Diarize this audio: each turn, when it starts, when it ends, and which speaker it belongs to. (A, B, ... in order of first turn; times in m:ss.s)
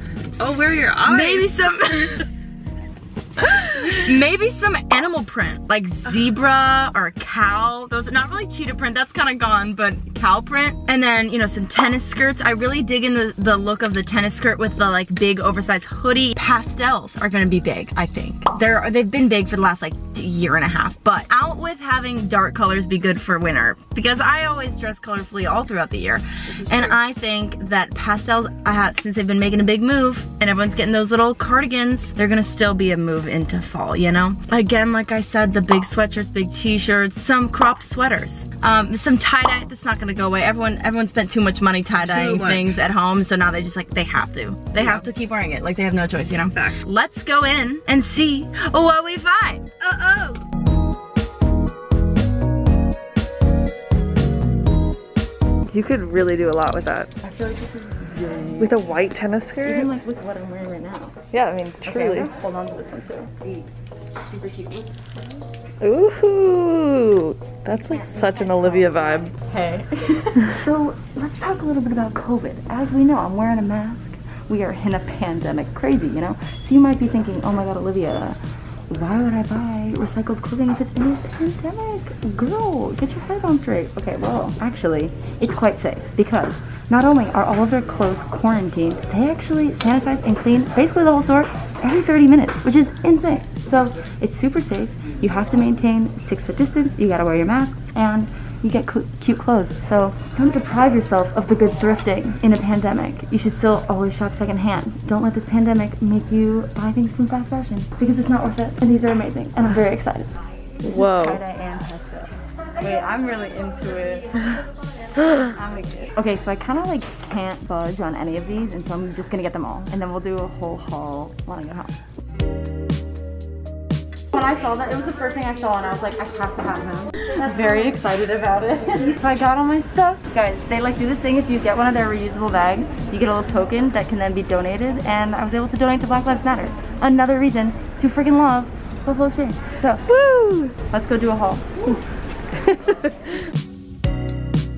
0:00.4-0:01.5 A
0:01.0-0:02.3 B
0:03.4-0:03.9 A
0:03.4-0:50.1 B
0:26.5-0:27.0 A
0:42.0-0:42.8 A
0:55.7-0:57.1 A
0:57.2-0:58.9 B
0:58.6-0:59.9 A
0:59.6-1:01.2 B
1:01.3-1:02.3 A
1:01.8-1:05.5 B
1:05.8-1:09.3 A
1:07.8-1:18.4 B
1:18.9-1:50.3 B
1:50.8-2:02.0 B
1:50.9-1:51.4 A
2:04.3-2:22.0 B
2:22.5-2:23.4 B